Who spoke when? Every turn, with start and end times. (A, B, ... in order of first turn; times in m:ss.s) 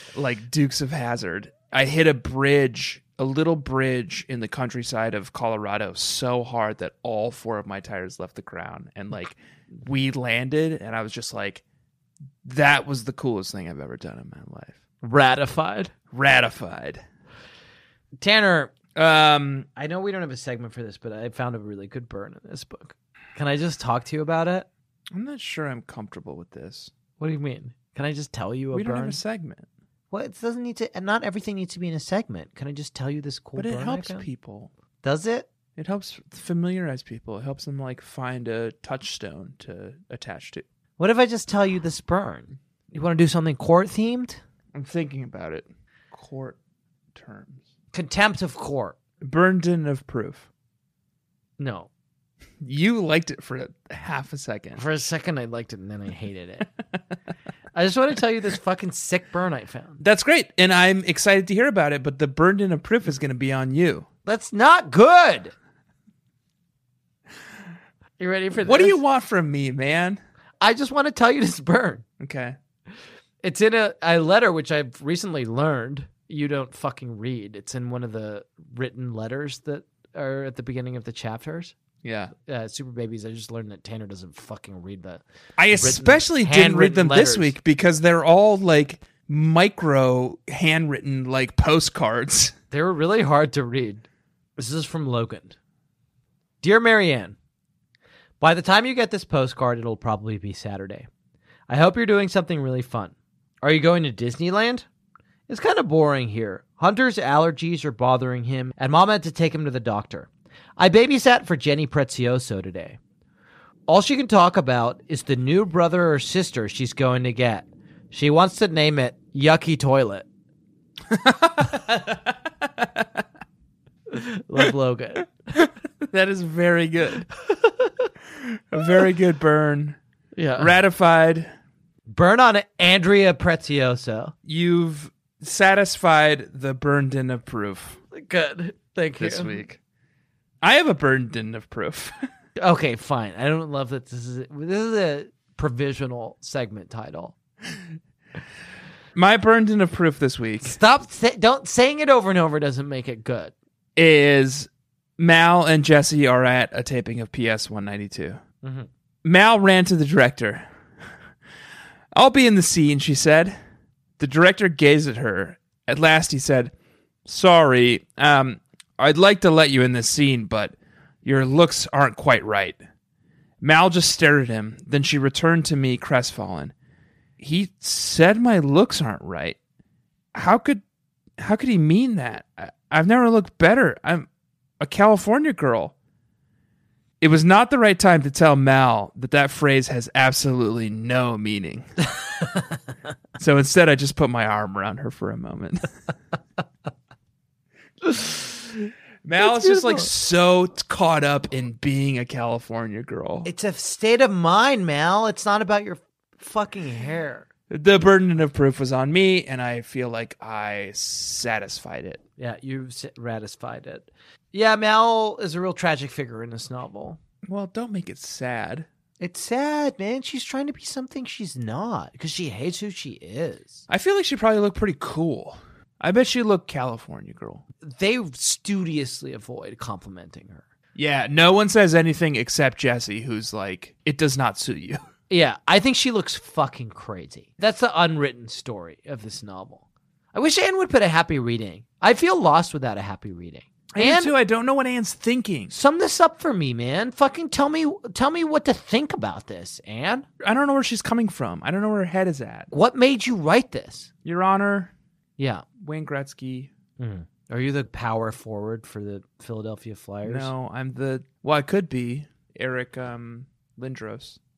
0:00.1-0:11.6 A
0:12.4-0:14.8 A
0:15.0-0:15.9 B
0:16.1-0:17.0 A
0:18.2-0:18.7 B
0:19.0-0:19.7 A
0:19.8-0:24.7 B
0:25.1-0:26.9 A
0:27.2-0:29.2 B
0:28.7-0:29.7 A
0:30.1-0:34.3 B
0:33.6-0:34.7 A
0:35.0-0:35.5 B
0:35.8-0:40.6 A
0:41.0-0:44.4 B
0:44.7-0:46.6 A
0:47.1-0:47.6 A
0:47.9-0:49.0 B
0:49.2-0:50.5 A
0:51.6-0:51.9 B
0:52.6-0:54.8 A
0:54.8-0:56.7 B
0:57.7-1:00.0 B
1:00.0-1:04.1 A
1:04.2-1:05.5 B
1:08.2-1:09.0 B
1:08.6-1:10.2 A
1:10.6-1:12.0 B
1:12.2-1:12.6 A
1:13.4-1:21.8 B
1:22.0-1:22.3 A
1:22.4-1:27.6 B
1:25.6-1:32.6 A
1:32.7-1:35.6 B
1:36.6-1:37.4 B
1:38.4-1:41.1 B
1:41.7-1:44.9 B
1:45.5-1:53.0 B
1:53.9-2:00.2 B
2:01.1-2:03.1 A
2:04.1-2:05.3 B
2:05.6-2:07.3 A
2:07.5-2:07.9 B
2:08.4-2:10.0 A
2:10.4-2:10.7 B
2:10.6-2:11.5 A
2:12.1-2:14.3 B
2:14.5-2:18.0 A
2:18.1-2:19.6 B
2:19.2-2:19.8 A
2:20.6-2:22.2 A
2:22.6-2:27.4 B
2:29.1-2:30.8 A
2:30.6-2:33.5 B
2:34.0-2:38.4 A
2:38.6-2:38.9 B
2:39.2-2:40.7 A
2:42.1-2:43.6 A
2:44.2-2:46.7 A
2:47.3-2:52.8 A
2:53.6-2:56.7 A
2:57.4-2:59.6 A
3:00.3-3:00.8 A
3:01.4-3:04.3 A
3:04.8-3:05.9 A
3:07.2-3:11.9 A
3:13.4-3:15.8 A
3:18.1-3:18.4 B
3:19.2-3:23.5 A
3:19.4-3:20.1 B
3:23.4-3:27.5 B
3:27.7-3:32.2 A
3:32.4-3:37.2 B
3:37.4-3:38.9 A
3:39.2-3:43.8 B
3:43.9-3:47.6 A
3:47.8-3:50.6 B
3:51.0-3:55.0 A
3:55.3-4:04.3 B
4:04.0-4:05.7 A
4:05.7-4:10.3 B
4:10.4-4:12.7 A
4:12.7-4:14.1 B
4:14.2-4:14.9 A
4:15.4-4:15.6 B
4:15.8-4:16.7 A
4:17.0-4:20.5 B
4:20.2-4:24.4 A